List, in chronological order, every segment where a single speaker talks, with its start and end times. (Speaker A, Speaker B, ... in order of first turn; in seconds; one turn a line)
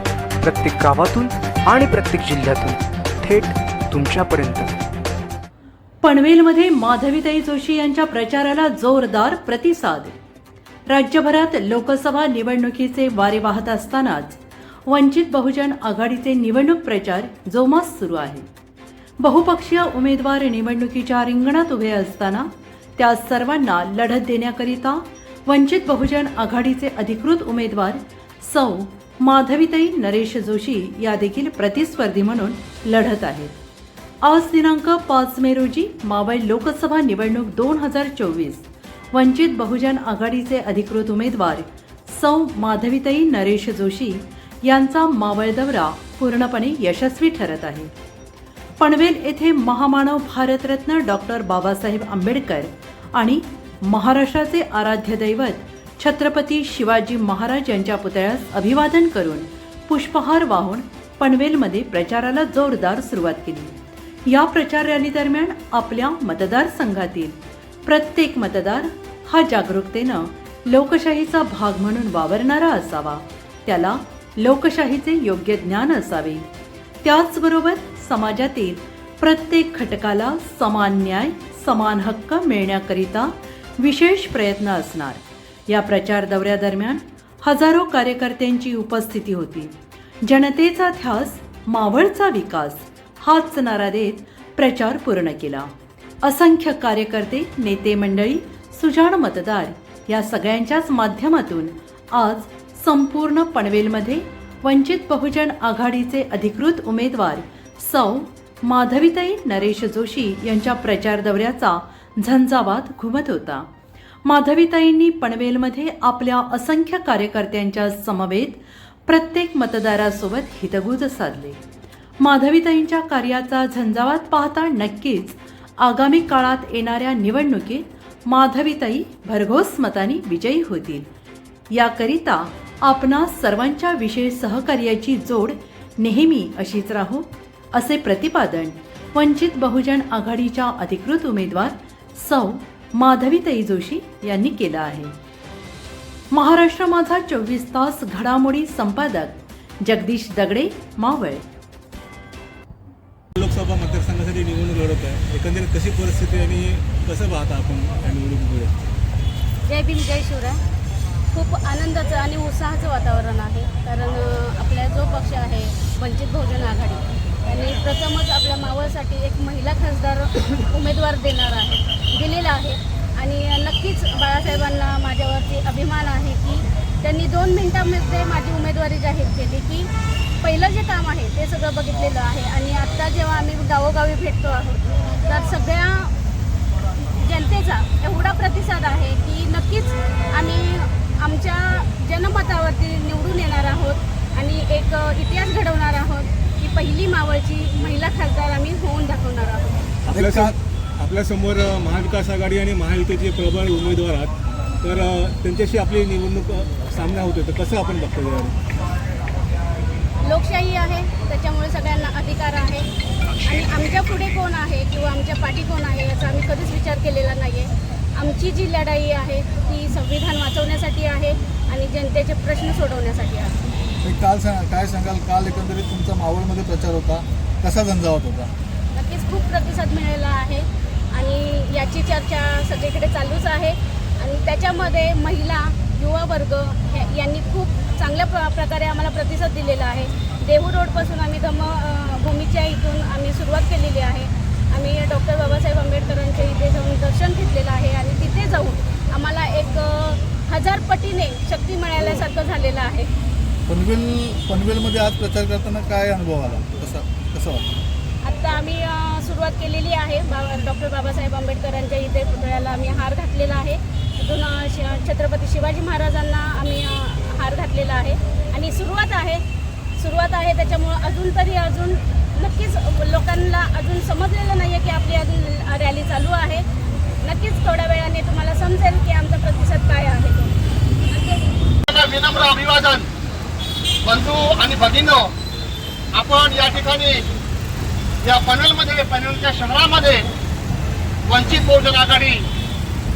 Speaker A: 0.5-4.6
Speaker B: 6.0-10.2
Speaker B: 10.9-18.4
Speaker B: 19.2-33.6
Speaker B: 34.2-47.9
Speaker B: 48.8-76.4
Speaker B: 77.0-95.7
Speaker B: 96.2-113.7
Speaker B: 114.2-121.6
Speaker B: 122.2-131.1
Speaker B: 131.7-145.1
Speaker B: 146.3-151.4
Speaker C: 153.4-158.7
Speaker D: 159.7-160.6
Speaker D: 161.3-179.9
Speaker D: 180.4-186.1
Speaker D: 187.0-199.9
Speaker E: 200.1-200.5
Speaker C: 200.1-208.5
Speaker D: 210.2-212.9
Speaker D: 213.4-223.6
Speaker E: 224.0-228.5
Speaker D: 228.9-253.1
Speaker E: 253.7-257.8
Speaker D: 258.2-269.4
Speaker D: 270.0-276.6
Speaker D: 277.2-280.6
Speaker D: 281.1-281.6
Speaker F: 281.9-283.1
Speaker F: 284.0-285.3
Speaker F: 286.1-287.2
Speaker F: 288.2-290.3
Speaker F: 291.3-292.4